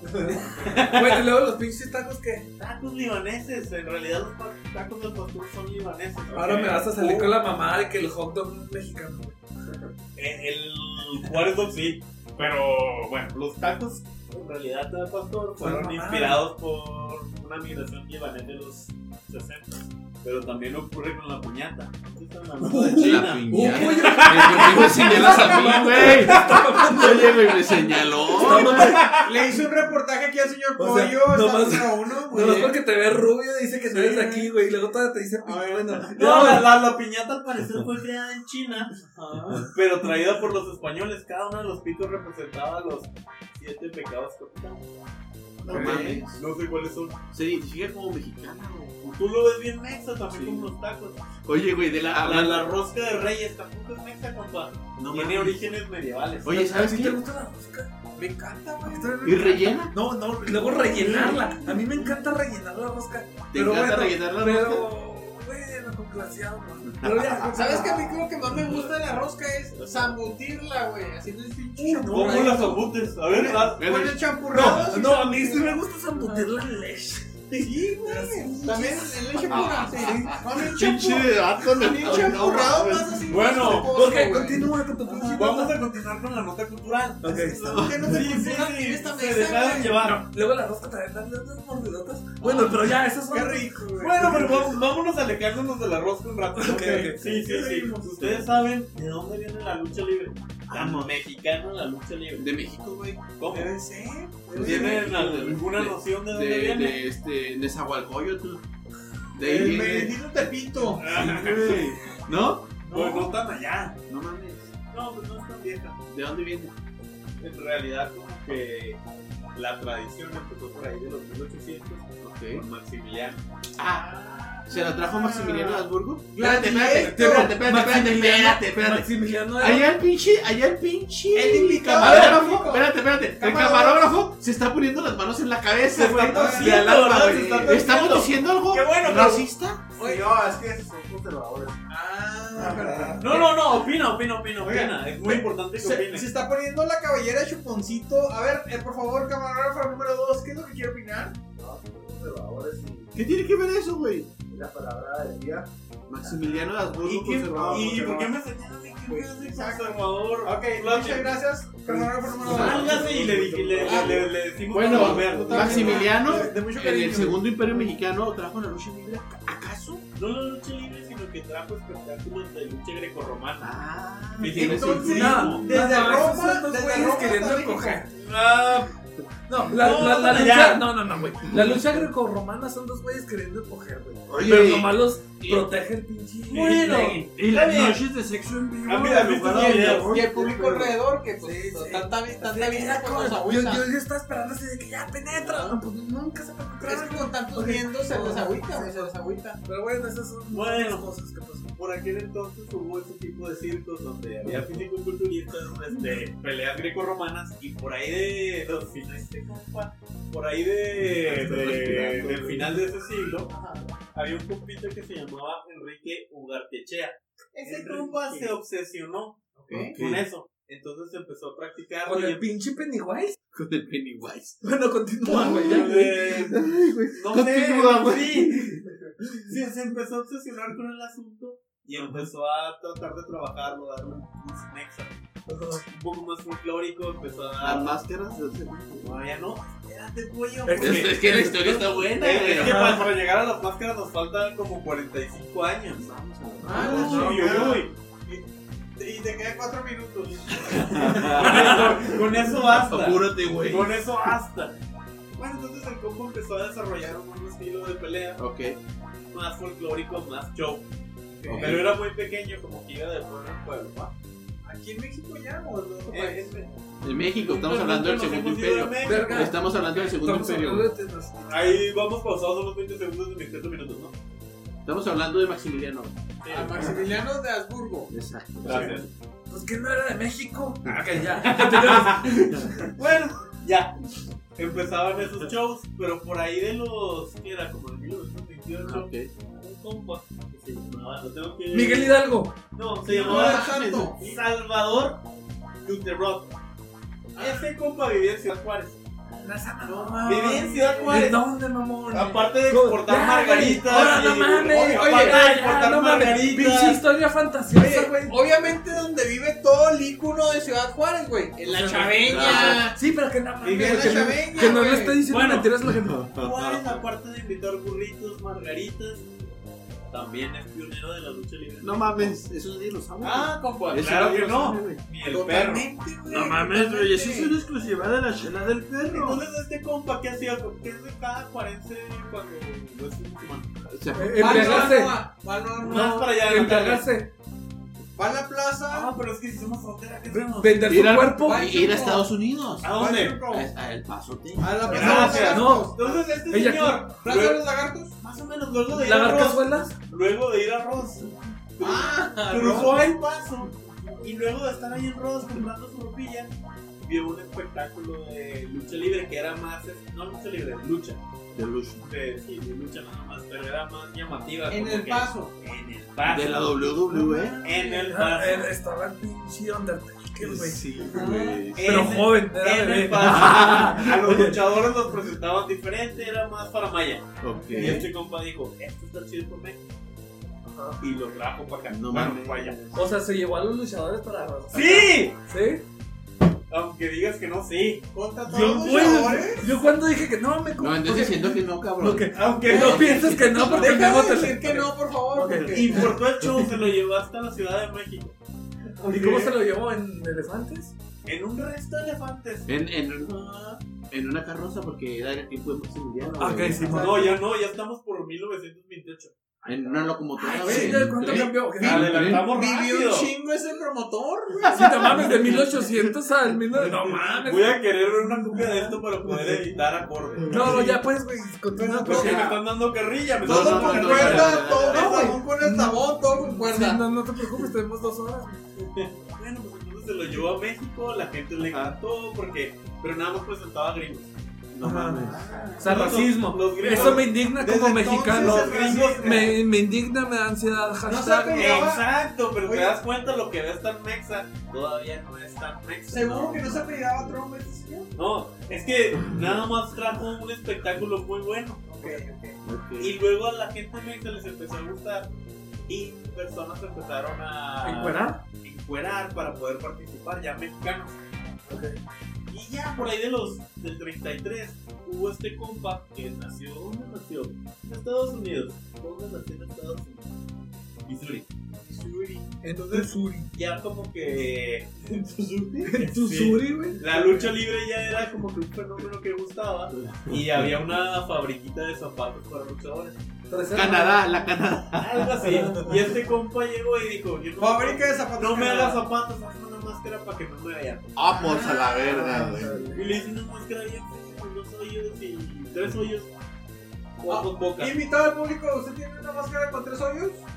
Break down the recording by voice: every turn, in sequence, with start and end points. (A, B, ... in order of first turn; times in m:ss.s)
0:00.2-0:02.5 A
0:00.5-0:01.3 B
0:02.6-0:07.3 B
0:06.3-0:09.4 A
0:10.2-0:25.6 B
0:15.6-0:16.4 A
0:22.6-0:27.7 A
0:22.9-0:29.0 C
0:26.3-0:26.6 B
0:28.3-0:29.2 A
0:28.5-0:29.2 B
0:29.2-0:32.8 D
0:30.8-0:36.8 A
0:33.9-0:34.5 D
0:35.4-0:35.8 D
0:36.1-0:44.9 B
0:39.1-0:39.6 D
0:45.6-0:47.2 B
0:45.6-0:46.4 C
0:45.8-0:46.0 D
0:47.3-0:49.0 C
0:49.0-0:51.2 B
0:50.3-0:50.7 C
0:51.4-0:52.8 C
0:52.1-0:56.5 B
0:55.0-0:55.6 C
0:56.4-0:57.2 C
0:56.5-0:57.9 A
0:58.2-0:59.2 D
0:58.8-1:08.3 A
0:59.2-0:59.9 C
1:01.0-1:01.4 D
1:01.0-1:01.5 B
1:03.5-1:04.9 C
1:06.8-1:07.6 C
1:07.5-1:16.5 D
1:09.8-1:10.1 B
1:11.8-1:14.0 B
1:12.1-1:12.8 A
1:13.8-1:14.9 C
1:14.5-1:20.4 A
1:17.5-1:25.4 D
1:19.4-1:23.2 C
1:23.3-1:23.9 B
1:23.6-1:25.8 A
1:25.1-1:27.3 B
1:27.2-1:27.8 A
1:27.2-1:30.0 D
1:27.7-1:28.1 C
1:28.0-1:30.2 B
1:30.0-1:34.4 A
1:32.4-1:32.8 B
1:32.4-1:32.7 D
1:33.3-1:34.8 D
1:34.0-1:42.5 B
1:36.6-1:37.3 A
1:37.2-1:38.4 D
1:40.7-1:41.2 C
1:42.4-1:43.2 C
1:43.4-1:43.8 B
1:43.5-1:45.0 D
1:44.5-1:47.0 B
1:44.6-1:48.6 C
1:49.3-1:50.2 C
1:49.4-1:51.0 D
1:51.0-1:51.9 B
1:51.0-1:52.8 C
1:52.8-1:53.3 D
1:52.8-1:54.0 B
1:54.1-1:54.7 C
1:54.9-1:56.0 B
1:56.1-1:56.7 C
1:57.4-1:59.0 B
1:59.5-2:03.4 B
2:02.2-2:02.7 C
2:03.8-2:04.1 C
2:04.1-2:05.7 B
2:04.6-2:19.8 C
2:06.3-2:07.6 D
2:06.7-2:09.9 A
2:11.3-2:14.1 D
2:12.0-2:12.4 B
2:15.8-2:19.3 B
2:16.3-2:16.9 D
2:19.1-2:19.4 D
2:20.0-2:21.8 E
2:20.0-2:20.6 D
2:21.9-2:23.6 D
2:22.6-2:23.2 E
2:23.2-2:26.3 B
2:24.6-2:31.4 D
2:31.6-2:33.2 E
2:33.1-2:34.3 C
2:34.5-2:35.7 E
2:36.1-2:38.3 C
2:37.0-2:41.4 B
2:37.6-2:38.3 E
2:39.1-2:43.1 D
2:41.8-2:44.2 E
2:42.4-2:46.4 B
2:42.4-2:43.0 C
2:43.8-2:47.5 D
2:44.7-2:50.0 C
2:50.2-2:53.7 B
2:53.6-2:55.5 C
2:54.4-2:56.2 B
2:54.5-2:58.0 D
2:55.1-2:58.1 A
2:58.1-2:59.0 B
2:59.5-3:07.3 A
2:59.7-3:00.9 B
3:04.3-3:04.7 F
3:04.4-3:05.7 C
3:06.5-3:08.0 B
3:07.3-3:10.9 F
3:08.8-3:10.2 B
3:09.5-3:13.9 D
3:11.4-3:19.1 A
3:15.3-3:15.8 D
3:16.8-3:19.6 D
3:19.6-3:21.7 A
3:20.5-3:21.1 B
3:21.8-3:33.5 B
3:31.2-3:32.7 C
3:33.5-3:33.8 D
3:34.1-3:42.4 B
3:37.6-3:38.6 D
3:39.6-3:40.0 D
3:39.7-3:40.3 C
3:42.1-3:43.4 A
3:43.5-3:44.6 C
3:44.6-3:46.2 A
3:45.3-3:48.9 B
3:45.3-3:48.8 C
3:49.4-3:55.3 B
3:52.0-3:52.3 C
3:55.5-3:55.8 A
3:55.8-3:58.0 B
3:57.6-3:59.2 C
3:59.0-4:06.1 B
4:00.7-4:01.6 A
4:00.8-4:03.0 C
4:02.6-4:03.1 A
4:06.0-4:07.6 C
4:06.6-4:08.4 D
4:06.7-4:07.9 B
4:06.8-4:07.7 A
4:09.0-4:11.7 D
4:10.6-4:14.0 C
4:11.0-4:14.8 B
4:11.5-4:11.8 A
4:15.4-4:18.4 B
4:18.4-4:18.8 C
4:19.3-4:24.1 B
4:21.4-4:21.8 D
4:21.4-4:21.9 C
4:24.6-4:26.6 D
4:26.1-4:26.7 B
4:27.0-4:30.9 C
4:27.2-4:29.5 B
4:29.0-4:31.8 A
4:31.5-4:34.1 B
4:34.8-4:36.2 C
4:36.4-4:37.0 B
4:36.5-4:38.1 D
4:38.1-4:39.1 C
4:38.6-4:39.1 B
4:39.5-4:42.6 A
4:41.4-4:43.9 B
4:44.6-4:52.2 B
4:48.8-4:49.3 C
4:51.7-4:52.6 A
4:52.7-4:55.3 B
4:53.1-4:54.2 D
4:53.2-4:54.1 C
4:55.8-4:56.5 B
4:57.4-4:57.7 D
4:57.4-4:59.0 B
4:59.4-5:08.4 A
4:59.4-5:01.3 D
5:00.2-5:01.4 B
5:02.1-5:07.0 B
5:04.7-5:05.4 D
5:07.7-5:13.0 D
5:11.6-5:16.3 A
5:12.2-5:12.9 C
5:13.6-5:15.2 D
5:13.6-5:14.3 B
5:15.3-5:15.7 B
5:16.0-5:17.0 C
5:16.3-5:19.3 B
5:20.1-5:22.4 B
5:21.8-5:25.0 C
5:23.2-5:25.9 B
5:25.3-5:27.6 D
5:26.3-5:28.9 F
5:28.0-5:29.4 C
5:29.1-5:33.8 B
5:33.9-5:35.0 C
5:34.2-5:35.2 A
5:34.4-5:36.4 D
5:35.8-5:37.1 B
5:36.0-5:37.3 A
5:38.2-5:39.1 D
5:38.9-5:41.0 B
5:40.3-5:41.7 A
5:40.8-5:43.0 C
5:41.4-5:42.3 D
5:42.8-5:43.4 B
5:42.9-5:43.7 D
5:43.5-5:45.4 C
5:44.6-5:46.4 D
5:44.9-5:47.6 B
5:45.3-5:45.9 A
5:46.5-5:47.1 A
5:47.1-5:48.2 D
5:48.2-6:01.2 B
5:48.9-5:49.9 A
5:51.8-5:53.1 D
6:01.6-6:02.1 C
6:02.0-6:06.9 B
6:04.7-6:05.5 D
6:06.2-6:07.6 C
6:07.1-6:08.1 D
6:07.6-6:08.7 B
6:08.1-6:10.8 A
6:10.4-6:12.2 C
6:11.1-6:11.7 D
6:11.8-6:19.8 B
6:11.8-6:14.6 A
6:13.2-6:14.1 C
6:17.4-6:18.1 C
6:17.8-6:18.0 D
6:20.7-6:21.0 A
6:21.0-6:23.0 B
6:21.9-6:23.0 C
6:22.9-6:25.8 A
6:24.7-6:25.4 B
6:26.7-6:28.1 B
6:28.1-6:29.7 D
6:28.5-6:36.2 A
6:30.8-6:34.3 C
6:32.3-6:33.8 B
6:33.8-6:36.1 D
6:35.6-6:38.4 B
6:39.0-6:40.9 A
6:39.1-6:39.6 B
6:41.3-6:42.7 B
6:42.7-6:43.4 C
6:43.2-6:43.8 B
6:44.1-6:47.3 C
6:46.4-6:47.4 A
6:46.9-6:50.1 B
6:49.6-6:52.5 C
6:50.4-6:52.2 A
6:50.5-6:55.6 D
6:51.3-6:53.3 B
6:54.7-6:55.4 C
6:54.7-6:57.8 A
6:57.1-7:01.0 B
7:00.5-7:02.5 A
7:01.8-7:02.6 D
7:02.0-7:05.2 B
7:03.4-7:05.3 C
7:03.4-7:07.0 D
7:04.9-7:08.6 A
7:08.8-7:14.3 B
7:11.6-7:12.0 C
7:14.7-7:15.9 C
7:14.8-7:21.9 A
7:15.3-7:16.1 D
7:15.8-7:17.3 B
7:16.8-7:19.5 D
7:18.3-7:19.6 B
7:21.1-7:22.1 D
7:21.5-7:27.3 B
7:22.6-7:23.0 D
7:26.1-7:28.1 D
7:28.2-7:32.2 B
7:31.9-7:32.6 D
7:32.6-7:33.2 C
7:33.0-7:35.3 B
7:35.9-7:41.6 B
7:37.8-7:38.4 A
7:41.7-7:41.9 A
7:42.5-7:50.3 B
7:51.0-7:51.5 B
7:51.8-7:53.1 D
7:52.6-7:53.5 A
7:53.5-8:03.2 B
7:55.9-7:57.0 A
7:57.1-7:57.5 D
7:59.9-8:00.7 C
8:03.5-8:04.2 A
8:03.7-8:05.4 C
8:05.0-8:11.1 B
8:05.4-8:05.9 A
8:07.6-8:09.0 D
8:11.2-8:12.8 C
8:11.3-8:12.4 D
8:12.1-8:13.0 A
8:12.9-8:16.3 B
8:17.2-8:18.0 B
8:17.3-8:20.4 D